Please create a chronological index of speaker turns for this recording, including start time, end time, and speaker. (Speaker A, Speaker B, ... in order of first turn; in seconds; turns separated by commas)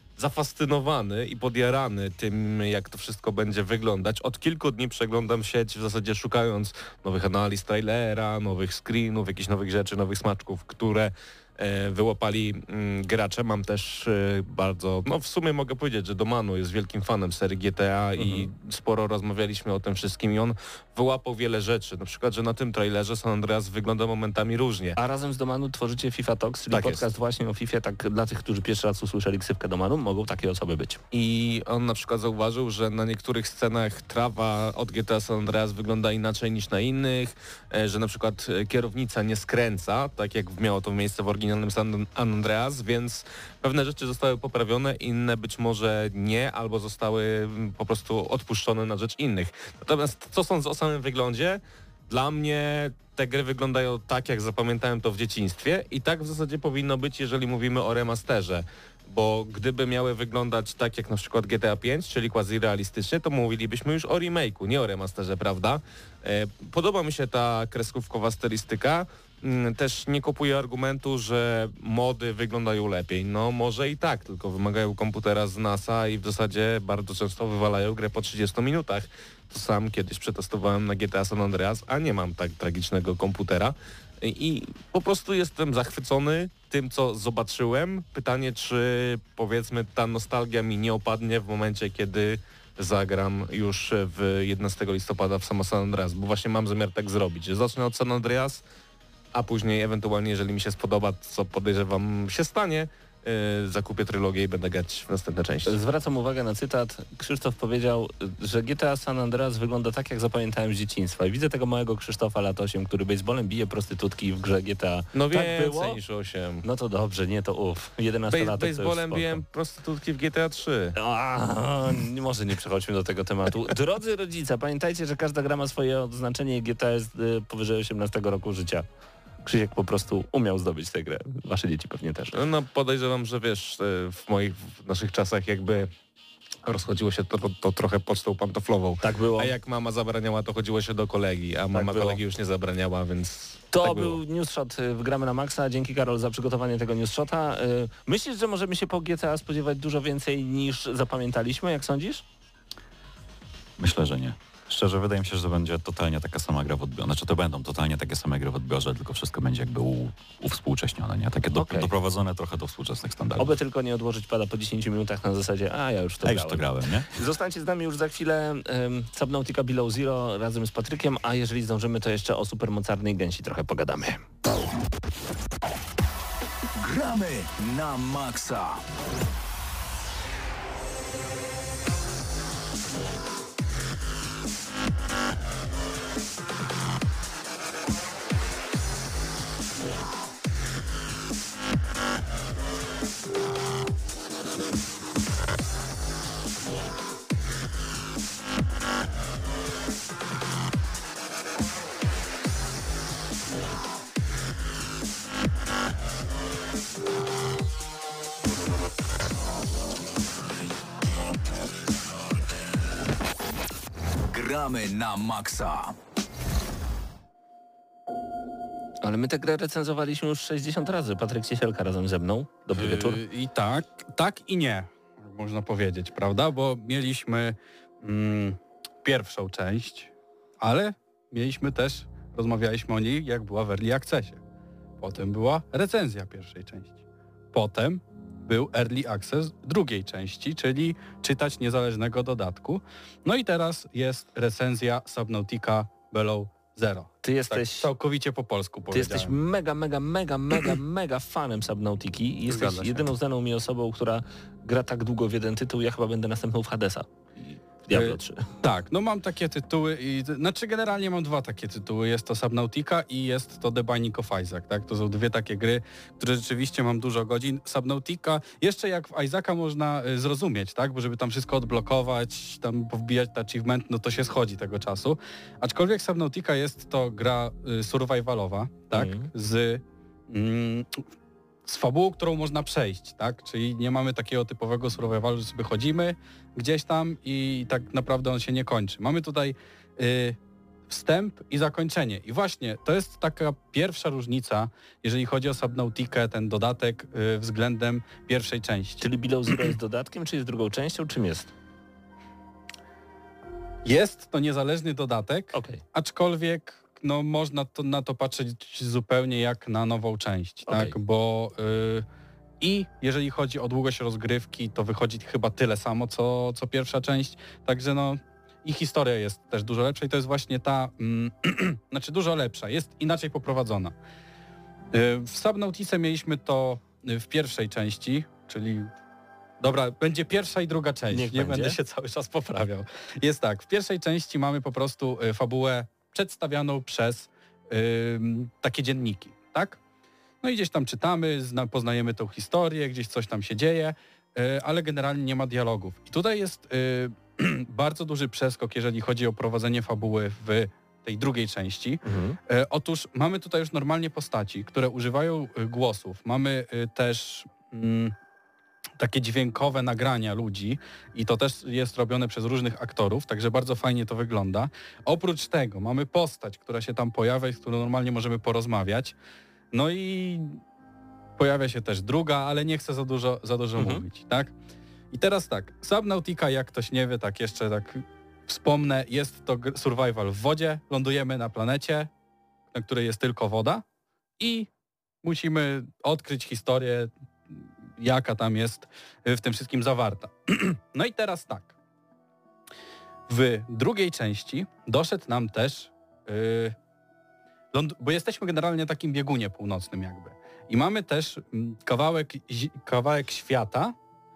Speaker A: 0.2-25.0, Speaker B: 18.2-18.5, Speaker B: 25.0-31.0, Speaker A: 26.7-27.1, Speaker A: 31.1-98.6, Speaker A: 99.3-105.8, Speaker B: 105.7-116.0, Speaker A: 115.1-116.6, Speaker B: 116.6-119.4, Speaker A: 118.3-120.9, Speaker B: 121.0-128.8, Speaker B: 129.4-132.3, Speaker A: 132.3-135.9, Speaker A: 136.6-144.2, Speaker B: 139.0-139.5, Speaker B: 141.7-142.2, Speaker B: 143.7-152.2, Speaker C: 153.8-163.6, Speaker B: 161.5-161.9, Speaker B: 163.3-174.2, Speaker C: 166.2-167.1, Speaker D: 176.8-178.8, Speaker D: 214.3-215.9, Speaker B: 219.0-223.2, Speaker E: 222.7-234.4, Speaker E: 235.0-236.9, Speaker E: 237.5-249.3, Speaker B: 247.2-247.9, Speaker B: 248.9-258.4, Speaker E: 252.5-253.0, Speaker E: 257.9-281.0, Speaker B: 278.9-279.3, Speaker E: 281.6-290.4, Speaker E: 290.9-299.0, Speaker B: 299.0-301.5, Speaker E: 303.8-312.1, Speaker B: 305.5-305.8, Speaker B: 310.7-310.9, Speaker E: 312.6-323.9, Speaker E: 324.9-328.9, Speaker E: 329.6-339.8, Speaker B: 331.1-331.8, Speaker E: 340.4-358.1, Speaker B: 352.0-352.4, Speaker E: 359.0-369.2, Speaker E: 369.7-370.6, Speaker E: 371.4-374.5, Speaker B: 373.8-374.0, Speaker E: 375.1-382.1, Speaker E: 382.7-383.8, Speaker E: 384.4-384.7, Speaker E: 385.2-391.7, Speaker E: 393.3-396.8, Speaker E: 397.7-403.9